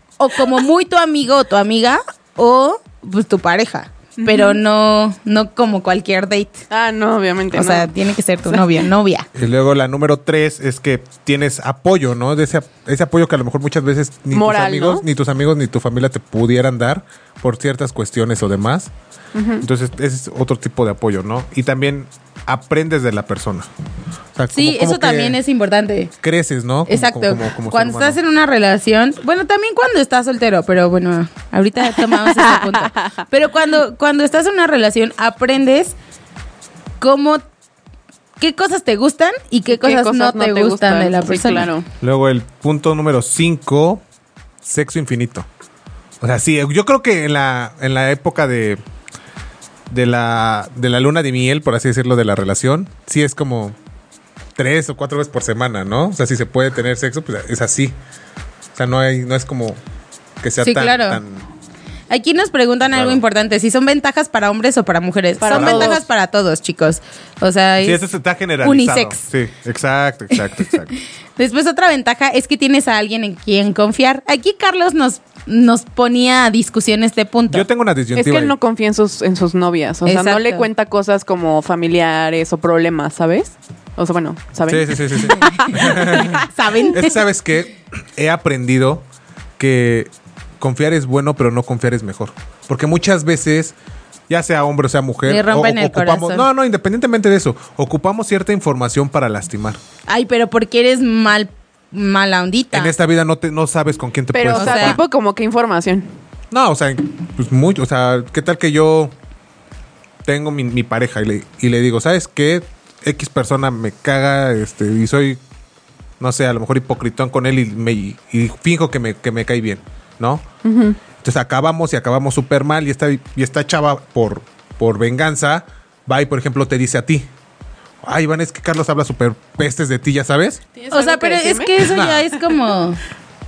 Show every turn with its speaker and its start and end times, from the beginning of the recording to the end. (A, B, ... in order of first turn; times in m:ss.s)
0:00.2-0:06.6 A
0:04.2-0:04.6 B
0:06.7-0:07.9 B
0:07.5-0:09.3 A
0:09.4-0:18.9 C
0:14.3-0:15.0 B
0:19.3-0:19.6 B
0:19.6-0:23.7 C
0:24.4-0:25.4 C
0:24.5-0:26.1 A
0:26.2-0:28.2 C
0:26.9-0:36.0 A
0:31.9-0:33.1 B
0:37.0-0:37.4 A
0:38.4-0:41.7 A
0:39.7-0:41.9 B
0:42.0-0:44.0 C
0:44.6-0:45.5 C
0:46.2-0:48.8 C
0:49.9-0:53.8 C
0:54.6-0:58.0 C
0:58.8-0:59.8 C
1:00.4-1:01.4 C
1:00.6-1:01.2 A
1:02.1-1:08.0 A
1:02.9-1:03.2 C
1:05.4-1:06.0 B
1:05.5-1:06.0 C
1:07.8-1:10.9 C
1:08.6-1:09.2 A
1:11.4-1:17.6 A
1:17.5-1:18.6 C
1:18.2-1:25.8 B
1:20.1-1:20.7 A
1:24.7-1:29.1 C
1:25.3-1:27.2 A
1:29.6-1:33.8 C
1:34.3-1:39.8 C
1:35.3-1:36.5 A
1:40.1-1:42.9 A
1:42.7-1:45.0 C
1:44.3-1:46.1 B
1:44.5-1:45.0 A
1:46.5-1:49.1 C
1:50.2-1:55.4 C
1:56.2-2:00.4 C
2:00.6-2:01.0 B
2:01.2-2:07.3 C
2:08.0-2:10.6 C
2:10.8-2:12.0 B
2:10.9-2:13.0 A
2:11.9-2:12.3 C